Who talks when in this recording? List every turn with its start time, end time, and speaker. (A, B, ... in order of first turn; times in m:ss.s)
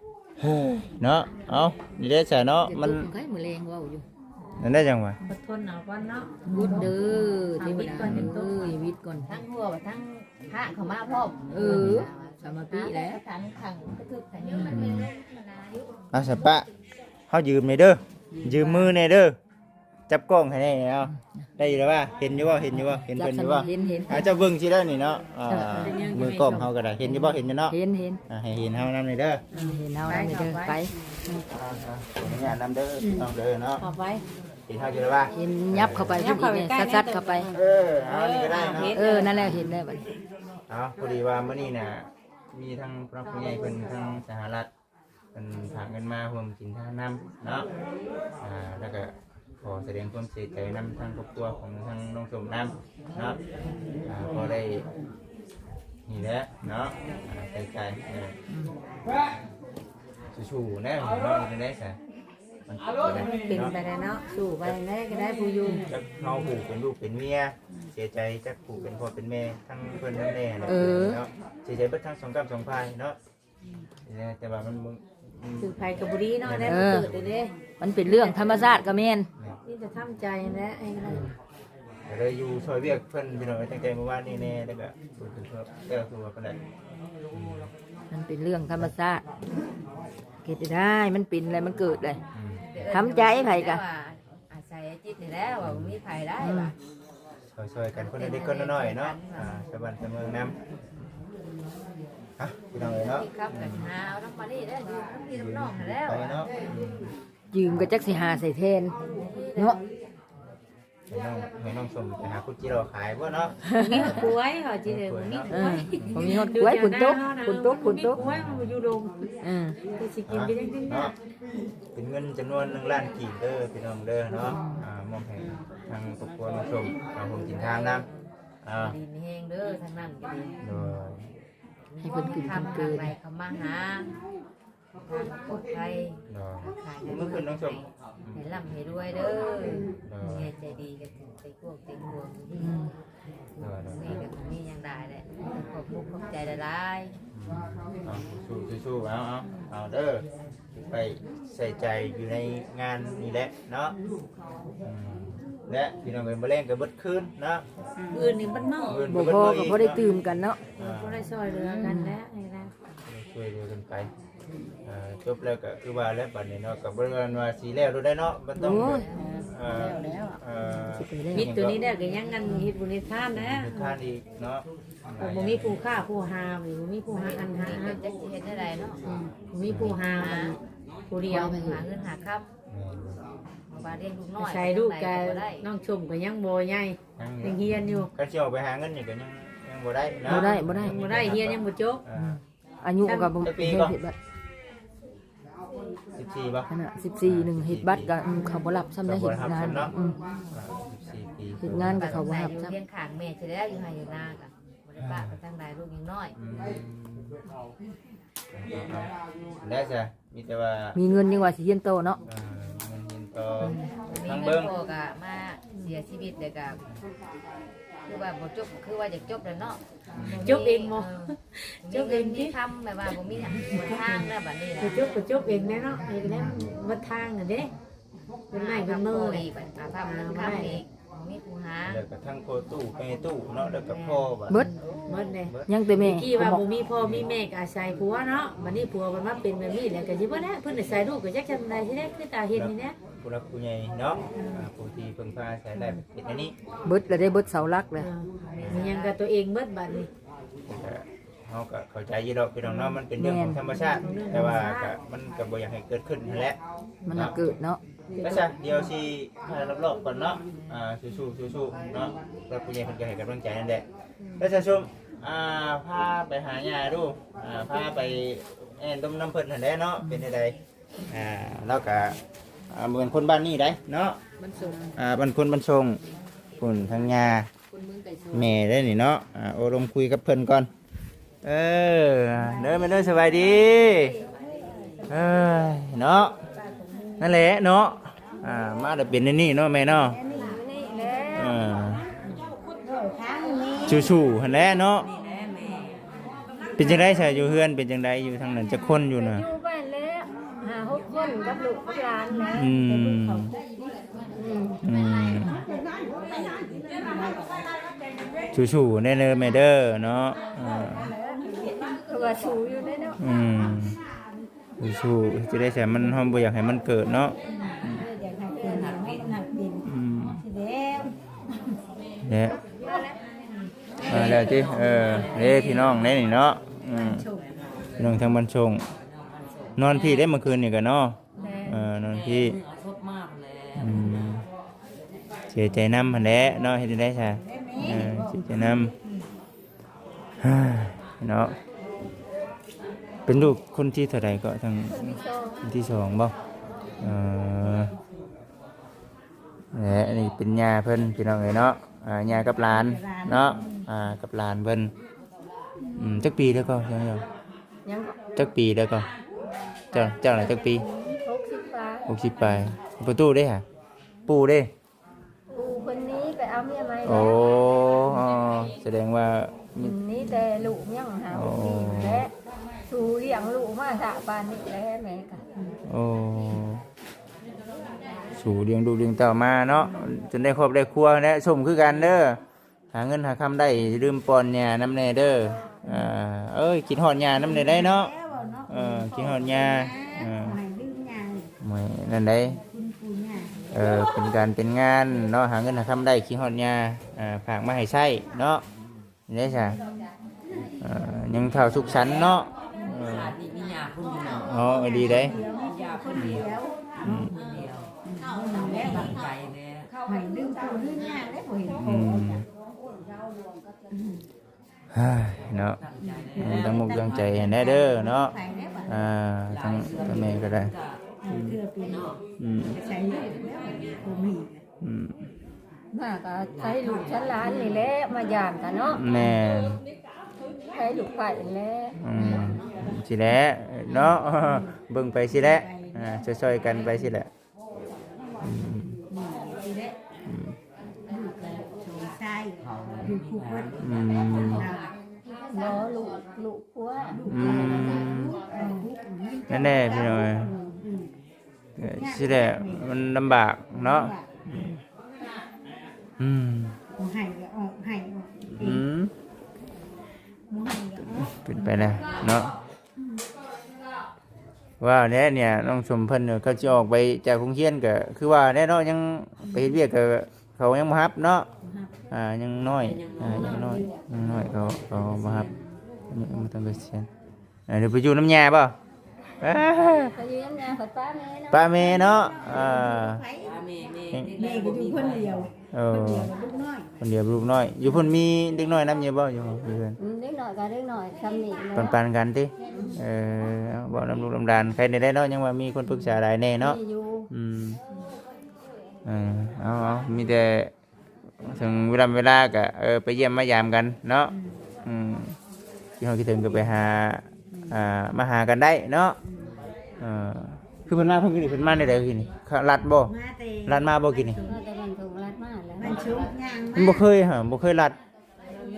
0:00.4-0:03.1 A
0:02.6-0:04.0 B
0:04.6-0:05.2 A
0:05.2-0:08.8 C
0:06.5-0:09.3 B
0:08.0-0:08.3 A
0:09.3-0:15.8 D
0:11.5-0:13.2 B
0:11.7-0:12.1 A
0:14.7-0:15.1 A
0:16.1-0:16.7 A
0:17.3-0:19.4 A
0:18.4-0:18.7 B
0:20.1-0:27.8 A
0:22.9-0:24.2 B
0:25.5-0:26.0 B
0:25.8-0:26.7 C
0:27.0-0:28.2 B
0:28.3-0:29.4 A
0:29.5-0:30.9 C
0:29.5-0:30.9 B
0:31.5-0:33.8 A
0:33.8-0:34.2 C
0:34.7-0:36.2 A
0:35.4-0:37.5 B
0:36.1-0:39.6 C
0:37.5-0:39.0 A
0:38.9-0:40.0 B
0:40.7-0:44.7 A
0:45.3-0:47.7 A
0:48.4-0:53.4 A
0:54.0-0:54.9 A
0:56.1-0:58.4 A
1:00.3-1:02.0 A
1:02.7-1:03.8 A
1:03.3-1:05.9 C
1:05.8-1:13.2 A
1:10.7-1:11.2 B
1:14.0-1:17.4 A
1:15.6-1:18.8 C
1:16.6-1:17.1 B
1:17.8-1:19.3 B
1:19.6-1:21.3 C
1:22.1-1:26.6 A
1:27.3-1:27.7 A
1:28.1-1:29.2 B
1:30.4-1:32.2 B
1:32.3-1:32.6 A
1:32.7-1:36.8 D
1:32.9-1:33.8 B
1:35.6-1:36.0 A
1:36.4-1:36.7 B
1:37.5-1:40.5 A
1:38.0-1:39.6 D
1:42.4-1:43.9 A
1:42.8-1:46.6 D
1:45.3-1:47.1 A
1:47.5-1:49.0 B
1:47.7-1:47.9 A
1:49.1-1:49.8 D
1:51.1-1:53.6 A
1:53.7-1:54.2 B
1:53.8-1:59.2 C
1:54.8-1:56.3 A
1:55.5-1:58.2 B
1:58.2-1:58.8 A
1:59.4-1:59.8 B
1:59.9-2:01.1 C
2:00.3-2:01.1 A
2:02.0-2:08.0 A
2:04.5-2:04.8 B
2:07.2-2:10.6 D
2:08.6-2:09.0 A
2:10.6-2:11.2 A
2:12.0-2:14.1 D
2:12.0-2:13.1 B
2:15.1-2:22.8 D
2:16.3-2:18.4 A
2:20.0-2:20.5 A
2:22.6-2:22.9 B
2:23.6-2:24.2 A
2:23.6-2:27.2 D
2:27.3-2:30.2 A
2:30.8-2:34.0 A
2:34.8-2:37.6 A
2:38.0-2:38.3 E
2:38.1-2:39.0 C
2:38.7-2:40.0 A
2:39.1-2:40.6 B
2:40.8-2:41.3 A
2:40.8-2:42.7 C
2:41.8-2:42.2 B
2:43.1-2:44.1 A
2:44.8-2:51.8 A
2:48.6-2:49.1 B
2:48.7-2:49.2 D
2:49.2-2:50.4 E
2:50.8-2:51.5 B
2:51.3-2:54.0 C
2:53.3-2:55.8 A
2:55.2-2:58.0 C
2:57.1-2:59.0 D
2:59.5-3:00.6 C
2:59.6-3:00.0 A
3:00.1-3:00.6 D
3:01.1-3:01.8 C
3:01.3-3:02.5 D
3:01.3-3:01.8 B
3:02.7-3:03.2 A
3:03.7-3:05.7 D
3:04.3-3:08.1 C
3:07.2-3:12.4 A
3:10.3-3:11.0 B
3:10.3-3:12.0 C
3:12.1-3:14.2 B
3:13.0-3:13.5 C
3:13.4-3:13.9 A
3:16.1-3:16.7 A
3:16.7-3:20.2 B
3:17.2-3:18.1 A
3:19.0-3:19.9 A
3:20.5-3:22.1 A
3:21.6-3:22.8 B
3:21.8-3:26.4 D
3:25.0-3:25.4 A
3:26.4-3:27.4 A
3:28.5-3:29.1 A
3:29.6-3:31.0 A
3:31.0-3:32.2 B
3:32.3-3:34.7 A
3:33.6-3:33.9 B
3:34.1-3:36.8 D
3:38.1-3:39.8 D
3:40.1-3:40.6 A
3:40.3-3:41.3 D
3:40.4-3:42.6 C
3:41.8-3:45.2 D
3:43.3-3:43.6 A
3:44.0-3:44.3 C
3:44.8-3:47.7 C
3:46.3-3:46.8 A
3:48.5-3:50.8 C
3:48.5-3:52.0 D
3:51.9-3:54.6 A
3:53.8-3:55.1 D
3:54.6-4:03.0 C
3:55.4-3:55.7 A
3:55.7-3:56.6 B
4:02.6-4:06.6 A
4:04.4-4:04.6 C
4:06.8-4:08.1 B
4:08.0-4:10.1 C
4:08.5-4:09.2 D
4:08.6-4:08.9 A
4:10.7-4:16.6 A
4:13.2-4:13.6 B
4:13.9-4:15.0 C
4:17.1-4:17.8 B
4:17.1-4:17.4 A
4:18.1-4:18.5 C
4:18.2-4:23.8 A
4:24.4-4:30.6 A
4:31.1-4:32.2 A
4:32.7-4:34.2 A
4:34.4-4:34.9 B
4:35.0-4:36.0 A
4:36.6-4:37.5 A
4:37.7-4:38.5 B
4:38.3-4:40.7 A
4:41.4-4:44.2 A
4:42.7-4:45.4 E
4:45.1-4:46.4 A
4:46.6-4:47.2 E
4:47.2-4:50.2 A
4:50.0-4:50.6 E
4:50.3-4:51.6 F
4:51.3-4:52.0 A
4:52.7-4:54.2 E
4:53.8-4:55.1 A
4:55.0-4:56.9 G
4:56.8-4:59.5 A
4:59.2-5:02.8 F
5:02.5-5:03.6 A
5:03.5-5:03.8 E
5:04.4-5:04.8 F
5:04.8-5:05.6 A
5:05.4-5:07.8 E
5:08.5-5:11.1 A
5:10.7-5:12.0 E
5:12.0-5:13.2 F
5:13.2-5:14.0 A
5:14.8-5:18.0 A
5:17.5-5:21.8 E
5:18.6-5:19.4 G
5:19.8-5:20.4 A
5:22.2-5:22.6 A
5:24.0-5:26.3 G
5:24.1-5:27.2 A
5:25.2-5:25.8 E
5:26.9-5:27.6 E
5:28.0-5:28.8 A
5:29.0-5:30.3 G
5:29.8-5:32.6 A
5:31.4-5:31.8 C
5:32.0-5:34.4 G
5:33.8-5:34.4 A
5:35.5-5:38.9 A
5:37.4-5:38.2 E
5:40.4-5:41.6 A
5:43.3-5:46.3 A
5:44.9-5:45.6 F
5:47.0-5:47.9 A
5:49.7-5:54.9 A
5:52.3-5:53.8 E
5:56.0-5:57.2 A
5:57.8-5:58.2 F
5:58.4-5:59.1 A
5:59.9-6:02.1 F
5:59.9-6:00.9 A
6:02.1-6:03.6 A
6:04.3-6:04.7 A
6:05.5-6:07.4 F
6:07.0-6:10.0 A
6:09.8-6:12.3 F
6:11.3-6:12.3 A
6:12.9-6:15.4 F
6:15.9-6:16.8 A
6:18.4-6:22.4 A
6:22.9-6:28.1 A
6:27.3-6:31.5 E
6:28.7-6:30.6 A
6:31.6-6:32.6 A
6:32.6-6:33.7 E
6:33.7-6:38.6 A
6:39.3-6:39.8 A
6:40.8-6:43.4 A
6:41.5-6:46.5 G
6:44.3-6:45.4 A
6:44.5-6:47.5 E
6:46.2-6:46.4 A
6:47.0-6:47.4 A
6:47.2-6:49.9 G
6:48.0-6:49.2 E
6:50.0-6:52.4 E
6:51.8-6:52.4 A
6:53.9-6:54.2 E
6:54.9-6:55.8 A
6:55.6-6:57.5 G
6:56.0-6:59.0 E
6:56.4-6:58.3 A
6:58.9-7:00.7 A
6:59.5-7:01.0 G
7:01.2-7:02.1 E
7:01.3-7:01.6 A
7:01.9-7:02.2 G
7:02.4-7:02.8 A
7:02.7-7:04.6 E
7:02.8-7:04.0 G
7:04.8-7:05.3 A
7:05.9-7:09.1 F
7:06.5-7:07.9 G
7:08.9-7:09.8 A
7:10.7-7:12.0 F
7:12.0-7:17.3 A
7:12.2-7:12.6 E
7:13.9-7:14.7 E
7:15.3-7:16.2 E
7:18.2-7:20.0 E
7:18.4-7:19.0 A
7:20.3-7:20.6 A
7:21.1-7:24.9 E
7:22.6-7:24.9 G
7:23.8-7:24.7 A
7:25.4-7:28.2 F
7:27.1-7:31.1 E
7:27.3-7:28.4 A
7:29.5-7:30.5 A
7:31.8-7:34.8 A
7:31.8-7:33.0 E
7:33.8-7:34.3 E
7:36.2-7:36.8 A
7:37.0-7:38.8 E
7:38.6-7:39.1 A
7:40.5-7:42.4 E
7:41.4-7:42.5 A
7:44.8-7:51.5 A
7:51.6-7:51.9 E
7:52.1-7:55.5 A
7:52.8-7:55.6 G
7:53.6-7:53.9 E
7:56.1-7:57.1 A
7:57.7-7:58.8 A
7:59.4-8:00.2 A
8:00.1-8:02.1 F
8:01.5-8:03.2 A
8:02.0-8:03.6 E
8:03.4-8:05.5 G
8:04.3-8:06.9 E
8:05.7-8:06.3 A
8:07.0-8:10.0 A
8:10.0-8:12.0 F
8:11.8-8:16.8 A
8:12.6-8:13.0 E
8:16.6-8:17.3 F
8:17.3-8:17.8 A
8:19.0-8:20.7 A
8:21.4-8:24.3 A
8:24.8-8:25.4 A
8:26.0-8:29.2 A
8:27.5-8:27.8 E
8:30.0-8:33.1 A
8:33.0-8:34.6 E
8:33.6-8:34.4 A
8:34.4-8:36.2 F
8:35.8-8:37.1 E
8:36.8-8:38.0 A